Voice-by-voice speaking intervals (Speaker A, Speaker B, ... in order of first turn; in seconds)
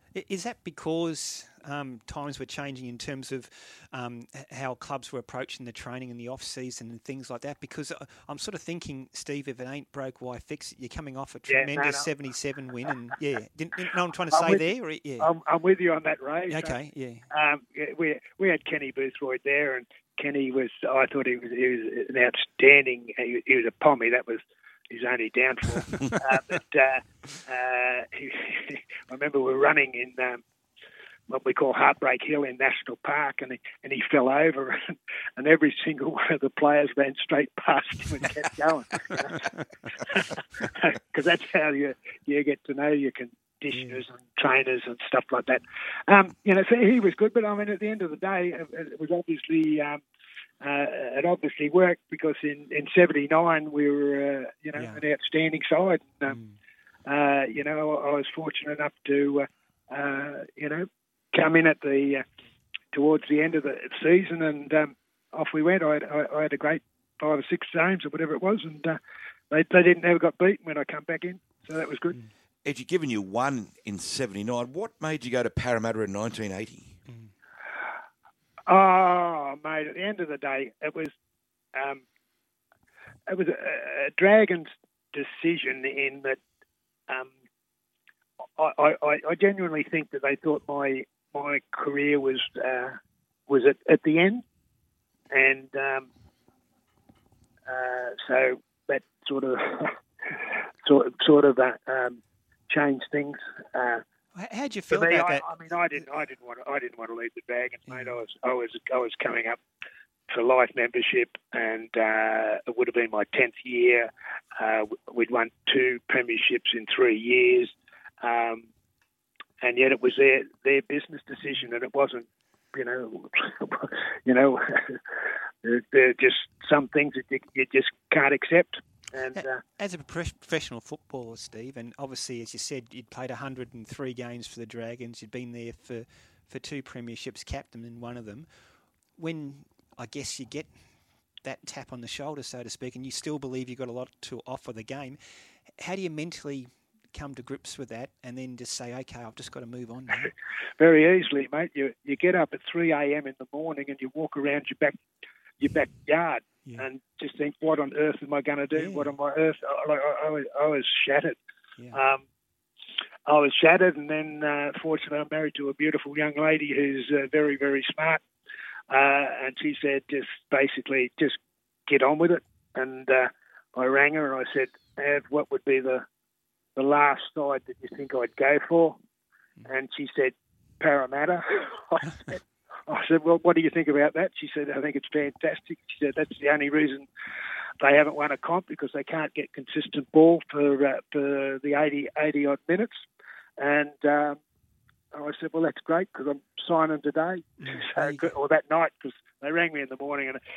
Speaker A: 0.1-15.3, 16.5-17.2, 43.7-44.0, 54.7-55.0, 56.3-56.6, 104.3-105.5, 107.9-108.2, 129.3-138.5, 139.2-140.7, 141.4-145.2, 145.8-150.3, 158.7-159.1, 197.6-198.3
Speaker B: 11.5-12.1, 14.3-14.7, 15.2-16.8, 17.3-30.4, 31.3-34.8, 35.4-50.0, 50.6-56.4, 57.0-62.2, 62.9-69.0, 69.5-72.2, 78.7-81.1, 81.7-82.0, 83.3-86.4, 88.6-94.4, 95.3-96.1, 97.7-104.0, 104.9-109.6, 110.3-118.7, 119.6-125.0, 125.6-129.6, 150.8-155.0, 155.6-161.4, 161.9-162.2, 163.3-168.2, 168.9-176.0, 176.8-179.0, 179.6-187.1, 187.8-193.0, 193.6-194.4, 195.1-200.4
Speaker C: 72.6-76.9